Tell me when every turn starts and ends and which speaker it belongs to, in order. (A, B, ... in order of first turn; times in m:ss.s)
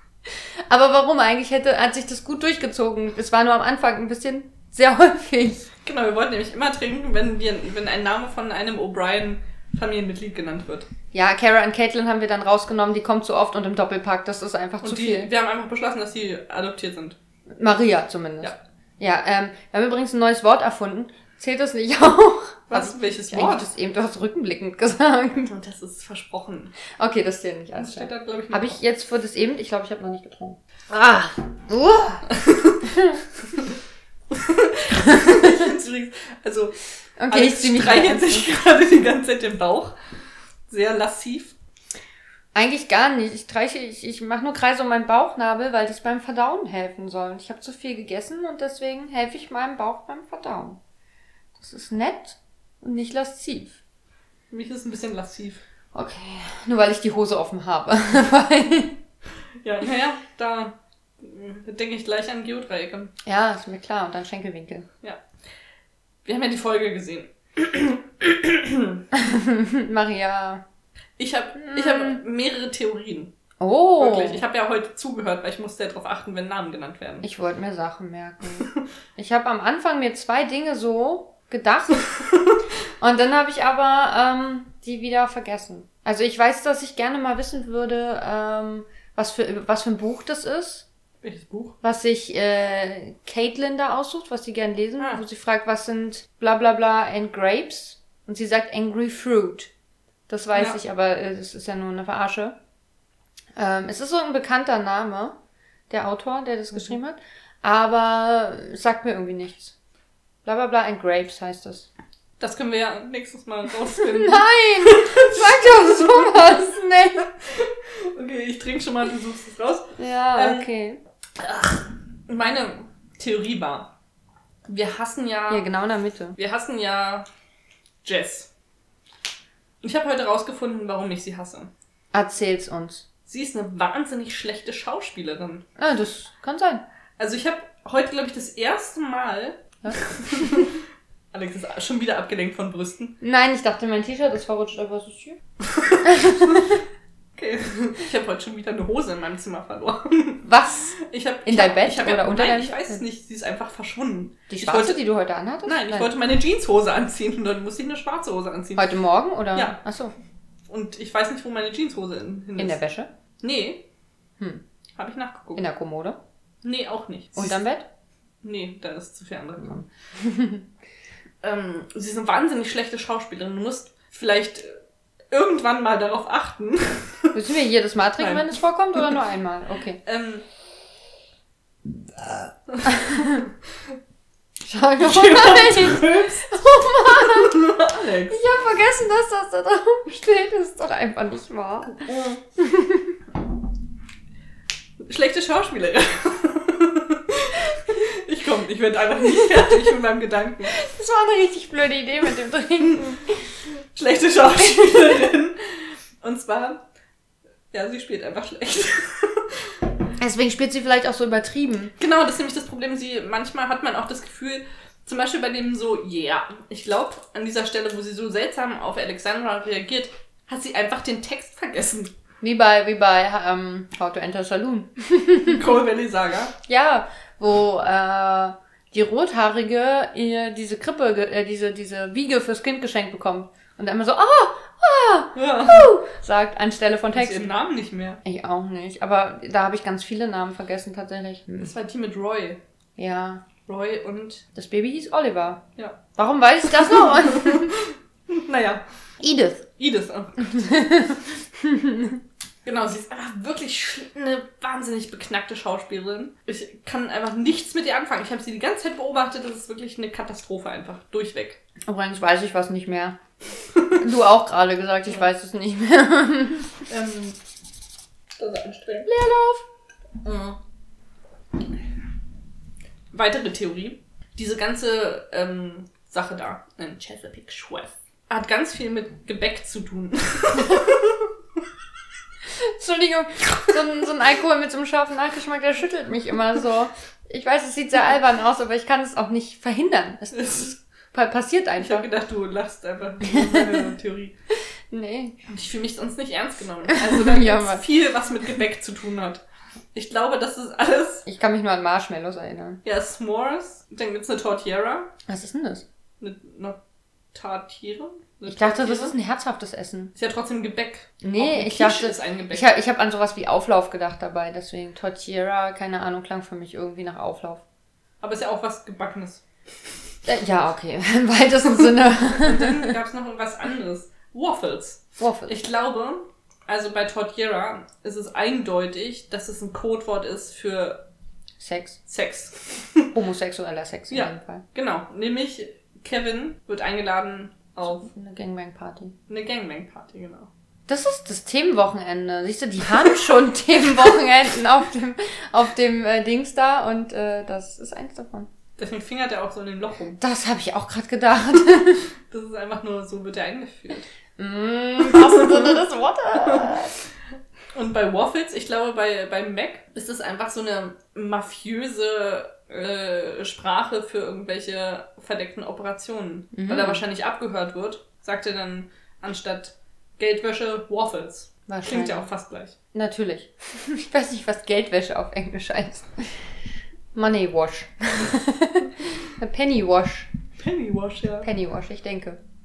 0:00.7-0:05.7 A
0:05.8-0:10.9 B
0:11.1-0:15.3 A
0:14.8-0:17.2 B
0:17.6-0:25.5 A
0:22.7-0:23.7 B
0:25.5-0:26.7 B
0:27.0-0:32.3 A
0:27.8-0:28.8 B
0:32.3-0:33.0 B
0:32.8-0:33.2 A
0:34.3-0:36.7 B
0:35.1-0:35.5 A
0:37.2-0:38.5 A
0:37.3-0:40.0 B
0:40.7-0:41.6 B
0:42.5-0:50.8 A
0:51.6-0:53.8 A
0:54.5-0:55.6 B
0:55.9-0:59.0 A
0:59.6-1:03.1 B
1:03.2-1:04.9 A
1:06.2-1:09.0 B
1:09.1-1:10.6 A
1:11.2-1:13.3 B
1:11.6-1:12.2 A
1:13.6-1:14.4 A
1:14.0-1:17.3 B
1:17.2-1:22.1 A
1:22.2-1:22.6 B
1:23.0-1:30.9 A
1:31.2-1:31.8 B
1:31.8-1:39.7 A
1:40.3-1:42.6 A
1:43.6-1:45.4 A
1:45.9-1:49.7 A
1:50.4-1:51.9 A
1:52.4-1:56.6 B
1:53.9-1:57.3 A
1:57.4-2:00.7 B
2:00.0-2:01.0 A
2:01.4-2:03.9 B
2:04.7-2:05.7 B
2:05.5-2:06.4 A
2:06.4-2:07.3 B
2:08.0-2:08.5 B
2:09.8-2:11.7 B
2:12.1-2:13.0 A
2:13.3-2:15.6 B
2:15.8-2:16.8 A
2:17.2-2:20.8 B
2:19.8-2:20.7 A
2:21.3-2:23.2 B
2:23.2-2:25.4 A
2:25.6-2:26.7 B
2:26.0-2:26.8 A
2:27.4-2:35.0 B
2:30.4-2:33.0 A
2:34.5-2:36.1 A
2:35.6-2:38.9 B
2:38.8-2:40.1 A
2:39.5-2:39.8 B
2:40.7-2:42.8 B
2:42.6-2:43.1 A
2:43.4-2:43.8 B
2:44.4-2:44.6 A
2:45.0-2:45.6 B
2:45.6-2:46.2 A
2:46.6-2:47.6 B
2:47.4-2:47.9 A
2:48.4-2:49.8 B
2:49.6-2:50.7 A
2:51.4-2:54.8 B
2:55.3-2:57.4 B
2:57.3-3:00.0 A
2:58.2-2:59.1 B
3:00.0-3:00.4 B
3:02.7-3:03.5 B
3:02.8-3:03.5 A
3:04.6-3:07.7 A
3:05.0-3:06.5 B
3:07.0-3:08.4 B
3:08.3-3:12.0 A
3:11.9-3:12.4 B
3:12.6-3:13.2 A
3:15.0-3:20.8 B
3:19.2-3:19.9 A
3:20.7-3:23.2 A
3:22.8-3:23.2 B
3:24.0-3:26.8 B
3:24.6-3:25.1 A
3:27.7-3:29.6 B
3:30.2-3:31.9 A
3:32.0-3:42.1 B
3:42.4-3:45.7 A
3:45.4-3:46.6 B
3:46.7-3:57.5 A
3:55.4-3:55.9 B
3:57.1-3:58.2 B
3:58.2-4:01.7 A
4:01.6-4:02.6 B
4:03.0-4:03.4 A
4:03.7-4:04.4 B
4:04.6-4:05.6 A
4:06.2-4:07.8 A
4:06.7-4:08.8 B
4:09.2-4:09.7 A
4:09.8-4:11.0 B
4:10.5-4:12.2 A
4:12.6-4:21.6 B
4:21.8-4:23.2 A
4:23.7-4:24.0 B
4:24.0-4:26.8 A
4:26.9-4:27.4 B
4:28.4-4:29.1 B
4:29.1-4:29.7 A
4:30.2-4:30.6 B
4:33.1-4:41.3 B
4:42.5-4:52.1 A
4:50.3-4:50.8 B
4:51.8-4:54.4 B
4:53.2-4:53.9 A
4:54.9-4:55.4 A
4:55.5-4:59.4 B
4:56.9-4:57.8 A
4:59.9-5:01.3 B
5:01.3-5:02.8 A
5:02.8-5:05.1 B
5:05.3-5:05.8 A
5:06.2-5:06.8 B
5:07.3-5:09.2 B
5:08.5-5:10.1 A
5:10.2-5:12.7 B
5:11.2-5:17.6 A
5:18.2-5:19.4 B
5:20.3-5:22.9 A
5:22.1-5:31.0 B
5:25.2-5:25.6 A
5:31.6-5:32.0 A
5:32.1-5:33.2 B
5:33.1-5:34.6 A
5:34.1-5:38.1 B
5:37.9-5:39.2 A
5:39.3-5:40.5 B
5:40.9-5:48.5 A
5:48.8-5:50.2 B
5:50.2-5:52.1 A
5:52.3-5:54.1 B
5:54.4-5:57.0 A
5:55.0-5:55.8 B
5:56.4-5:56.9 B
5:57.8-6:12.8 B
6:06.5-6:07.0 A
6:11.7-6:12.3 A
6:12.9-6:16.5 A
6:17.1-6:20.3 A
6:20.6-6:21.5 B
6:21.4-6:22.4 A